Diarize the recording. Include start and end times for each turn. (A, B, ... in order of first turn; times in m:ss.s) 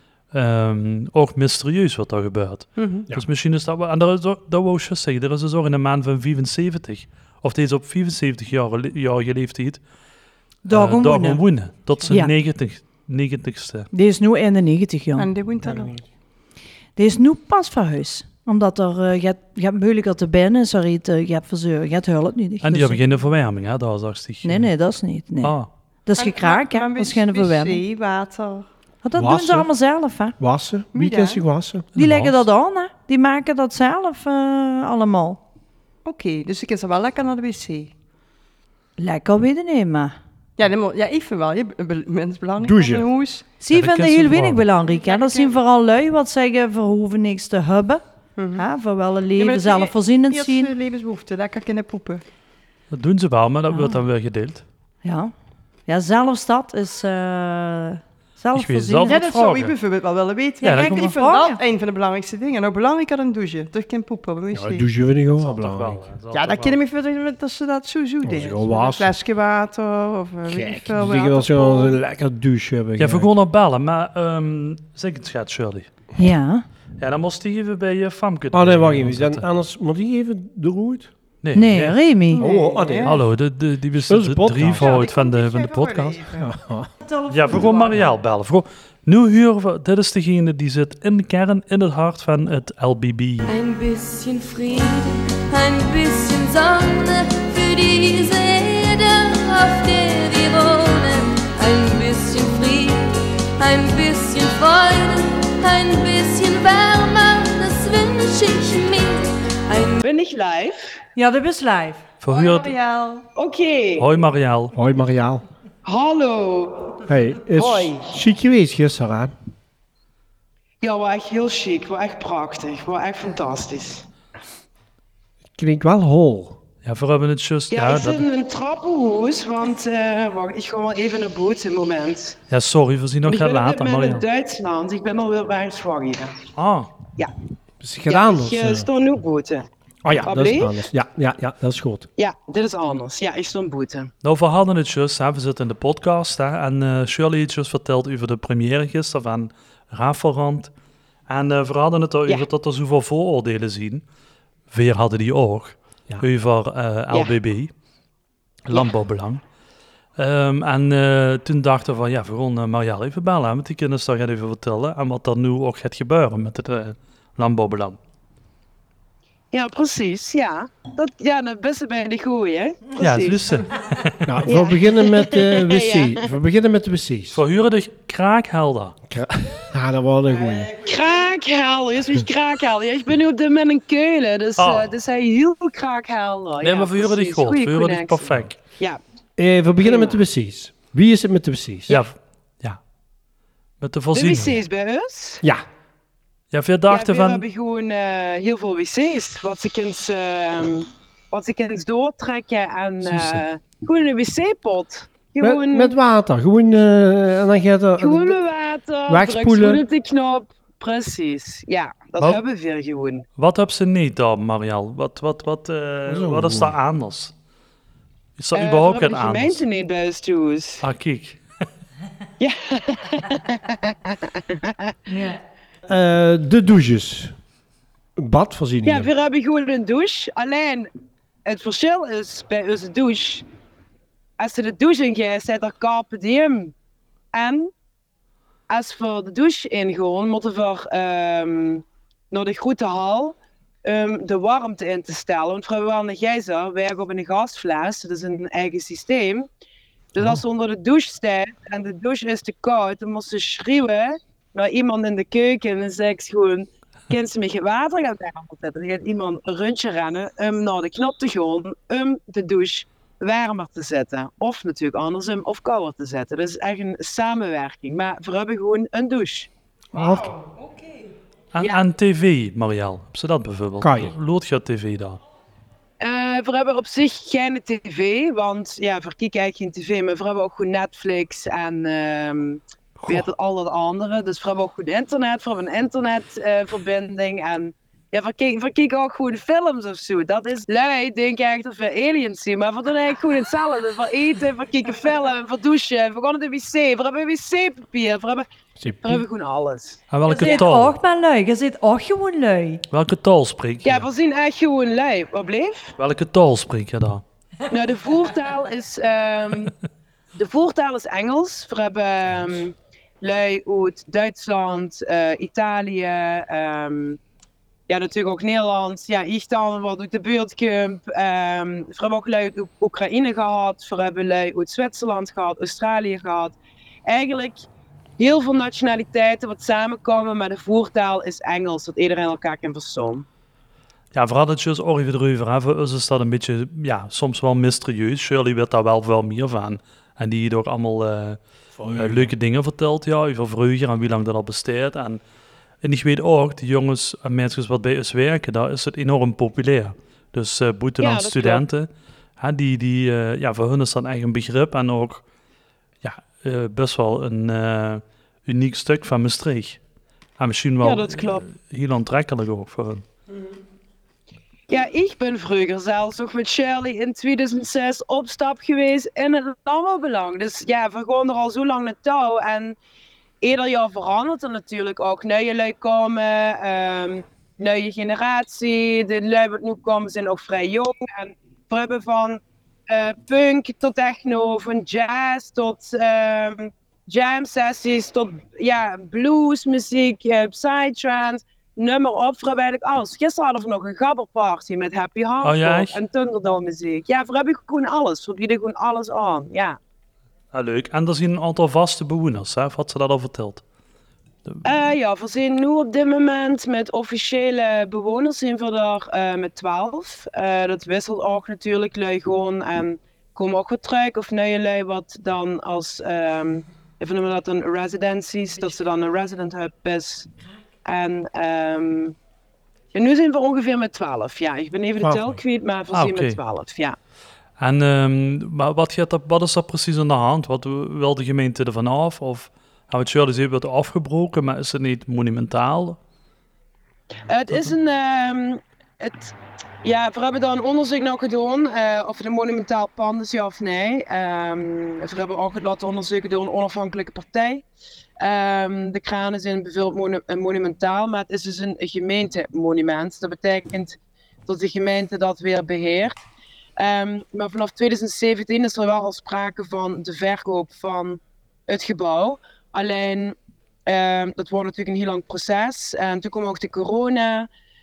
0:00.3-0:09.8 A
0:02.8-0:03.0 B
0:10.6-0:11.4 C
0:10.7-0:13.9 A
0:12.1-0:12.3 C
0:13.9-0:15.3 C
0:15.2-0:15.9 B
0:15.6-0:16.0 D
0:17.0-0:23.0 C
0:22.6-0:24.7 A
0:24.4-0:25.5 C
0:25.4-0:25.7 A
0:26.0-0:27.8 C
0:26.1-0:28.7 B
0:29.0-0:30.4 C
0:29.1-0:29.7 D
0:30.4-0:31.8 D
0:30.9-0:31.4 B
0:31.9-0:32.4 A
0:32.0-0:35.4 C
0:36.0-0:37.9 B
0:39.0-0:40.1 C
0:40.6-0:43.4 B
0:42.6-0:43.1 D
0:43.6-0:48.0 C
0:43.7-0:44.6 A
0:44.8-0:45.6 B
0:48.4-0:48.6 B
0:48.5-0:50.7 C
0:49.4-0:52.2 B
0:52.9-0:54.6 A
0:53.7-0:54.0 C
0:55.0-0:55.3 C
0:55.9-0:59.2 C
0:58.5-0:59.7 A
0:59.0-1:04.9 B
1:00.6-1:01.1 A
1:00.6-1:01.6 C
1:04.5-1:06.0 D
1:05.4-1:06.8 A
1:06.3-1:12.0 B
1:08.2-1:09.1 D
1:10.4-1:13.3 D
1:13.0-1:15.9 A
1:16.2-1:16.6 C
1:17.0-1:19.4 A
1:18.5-1:21.1 D
1:21.4-1:22.0 A
1:21.5-1:22.4 C
1:22.3-1:23.2 B
1:22.4-1:23.2 D
1:23.0-1:26.3 A
1:24.0-1:25.0 D
1:24.7-1:26.5 B
1:26.4-1:26.9 D
1:27.0-1:28.0 C
1:27.3-1:33.6 A
1:33.4-1:50.0 E
1:50.0-1:51.0 F
1:51.2-1:52.0 C
1:52.2-1:52.7 A
1:52.3-1:53.2 B
1:53.3-1:54.1 F
1:54.0-1:54.7 A
1:54.7-1:55.4 D
1:55.8-1:57.0 F
1:57.0-1:59.3 D
1:57.6-1:58.1 F
2:00.8-2:04.0 F
2:05.6-2:06.6 D
2:06.8-2:08.2 A
2:07.7-2:12.4 F
2:12.5-2:14.2 A
2:13.2-2:16.4 F
2:16.6-2:16.9 A
2:17.8-2:18.9 D
2:18.1-2:19.6 F
2:20.0-2:22.1 D
2:20.2-2:20.8 F
2:22.2-2:24.1 F
2:24.2-2:30.7 A
2:31.3-2:34.0 A
2:34.7-2:37.7 A
2:38.6-2:39.4 A
2:40.2-2:48.0 A
2:49.5-2:53.5 F
2:53.0-2:54.3 A
2:54.2-2:57.4 D
2:54.4-2:56.2 F
2:57.3-2:59.0 A
2:59.1-3:00.8 D
3:00.8-3:09.0 F
3:04.6-3:04.9 A
3:06.6-3:08.6 A
3:09.4-3:12.0 D
3:09.8-3:10.2 F
3:11.9-3:12.8 A
3:13.8-3:14.6 A
3:14.1-3:15.4 F
3:16.5-3:17.4 A
3:16.9-3:25.9 F
3:23.0-3:23.4 D
3:25.4-3:28.4 D
3:28.0-3:33.2 F
3:29.1-3:29.8 D
3:33.4-3:37.3 A
3:36.0-3:36.8 D
3:38.4-3:39.6 A
3:38.5-3:40.8 F
3:40.8-3:41.4 A
3:42.4-3:45.0 F
3:45.1-3:45.4 C
3:45.9-3:47.3 D
3:48.2-3:49.1 D
3:48.8-3:50.9 F
3:51.4-3:53.4 F
3:54.4-3:56.7 F
3:57.3-3:57.7 F
3:58.7-4:09.5 F
4:10.1-4:29.5 F
4:29.9-4:30.3 D
4:30.0-4:31.1 B
4:31.5-4:35.2 A
4:33.8-4:34.1 D
4:36.0-4:58.4 F
4:43.0-4:43.3 A
4:58.8-4:59.2 D
4:59.0-5:00.6 F
5:00.1-5:01.0 A
5:00.3-5:02.8 C
5:02.9-5:04.0 A
5:03.8-5:05.9 F
5:06.0-5:07.2 A
5:07.7-5:09.7 F
5:10.3-5:17.2 F
5:17.9-5:27.6 F
5:28.2-5:33.2 F
5:34.1-5:45.2 A
5:41.8-5:42.3 D
5:45.8-5:55.2 A
5:51.0-5:51.6 F
5:56.0-5:59.8 A
6:00.4-6:03.0 A
6:00.8-6:01.4 F
6:04.7-6:12.8 F
6:13.4-6:39.8 F
6:35.4-6:36.0 A
6:40.5-6:43.6 A
6:44.6-7:00.3 F
7:00.8-7:02.2 F
7:02.9-7:07.0 F
7:05.0-7:05.4 D
7:05.9-7:06.4 A
7:07.6-7:16.0 A
7:17.3-7:19.3 F
7:19.8-7:27.6 F
7:28.2-7:36.2 F
7:36.8-7:47.5 F